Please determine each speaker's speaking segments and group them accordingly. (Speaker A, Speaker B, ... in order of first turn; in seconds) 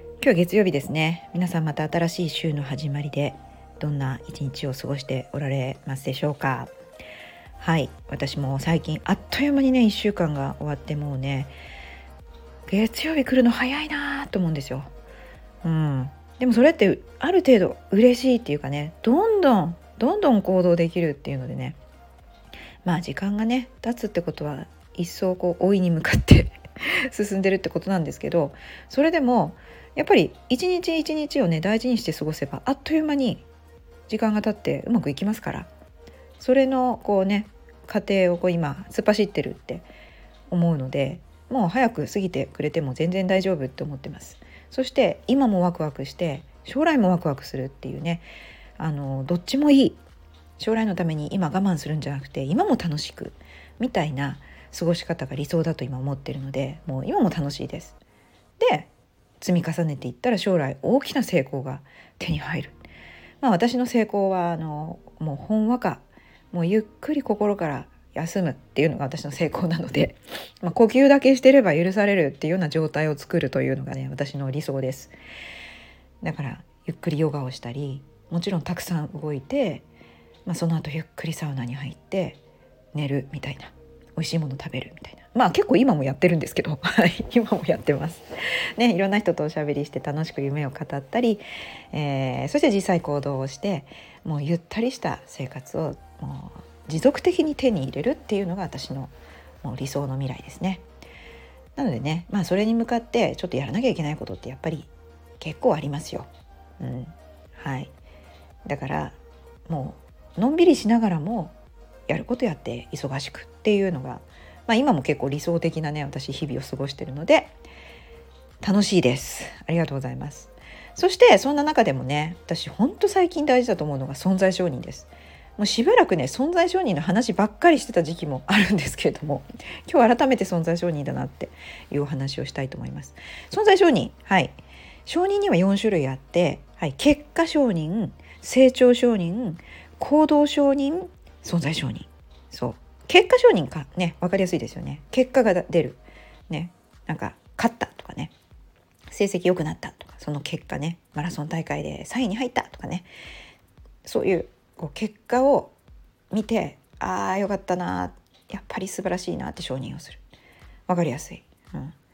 Speaker A: 0.2-6.7, 7.6-11.5, 12.7-14.9, 15.6-21.8, 22.8-33.4, 34.1-35.7, 36.4-39.9, 40.5-48.3, 48.8-50.0, 50.6-58.0, 58.6-58.9, 59.4-62.8, 63.4-75.1, 76.2-79.8, 80.5-82.4, 82.9-88.2, 88.8-100.8, 101.8-107.9, 108.6-111.5, 112.1-117.5, 118.6-148.3, 149.1-153.1, 154.0-155.7, 156.3-160.2, 160.9-161.9